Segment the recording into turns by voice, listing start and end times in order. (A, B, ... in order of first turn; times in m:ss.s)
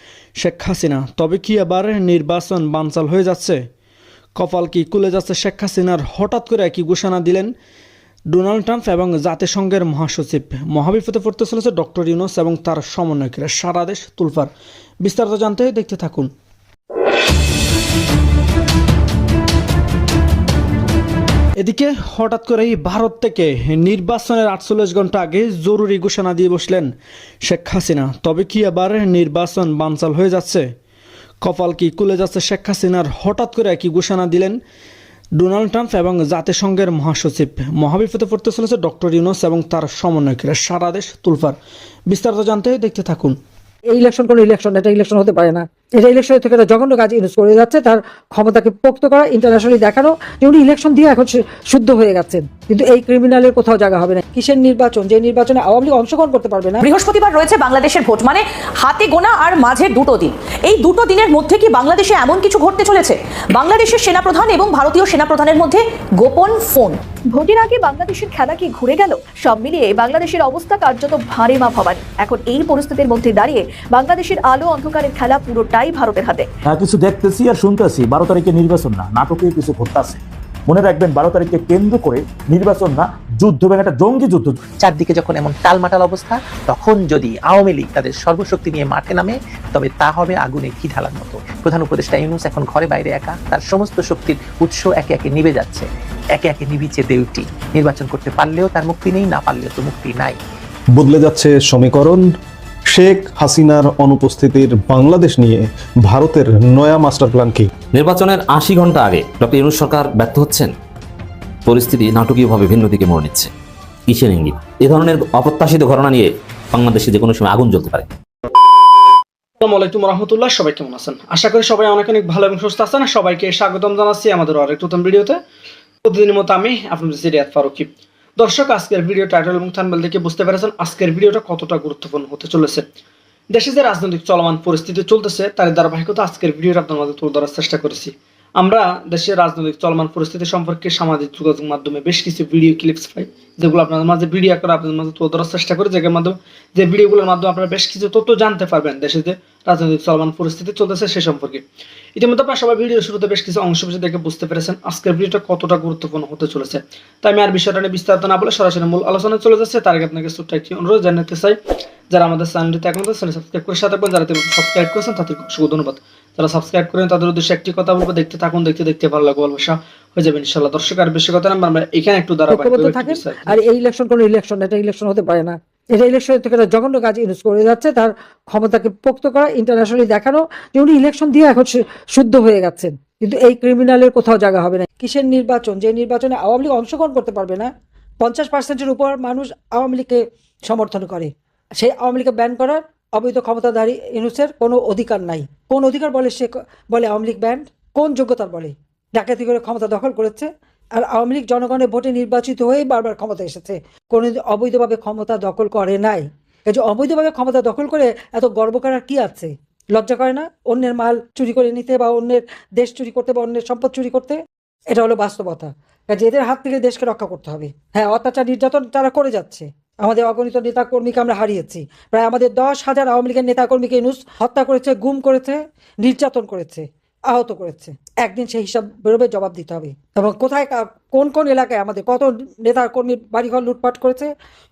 0:00.4-0:03.6 A
0:04.4-0:07.5 A
0:08.3-0:14.5 A
0:15.0-0:16.3 A
0:21.6-0:26.9 A
0:27.4-0:30.6 A
0:31.4-0:34.6 A
0:35.4-0:41.6 A
0:42.1-0:43.4 A
0:43.9-0:56.8 B
0:56.8-1:07.0 C
1:07.3-1:16.5 D
1:16.7-1:24.6 E
1:24.8-1:40.4 F
1:41.0-1:42.2 G
1:42.9-1:47.7 G
1:47.9-1:50.7 H
1:51.7-1:53.5 H
1:54.1-1:58.1 H
1:59.6-2:05.4 A
2:06.0-2:12.8 A
2:13.5-2:31.6 A
2:32.2-2:41.6 A
2:42.1-2:53.6 A
2:52.5-3:34.4 B
3:34.9-3:54.3 B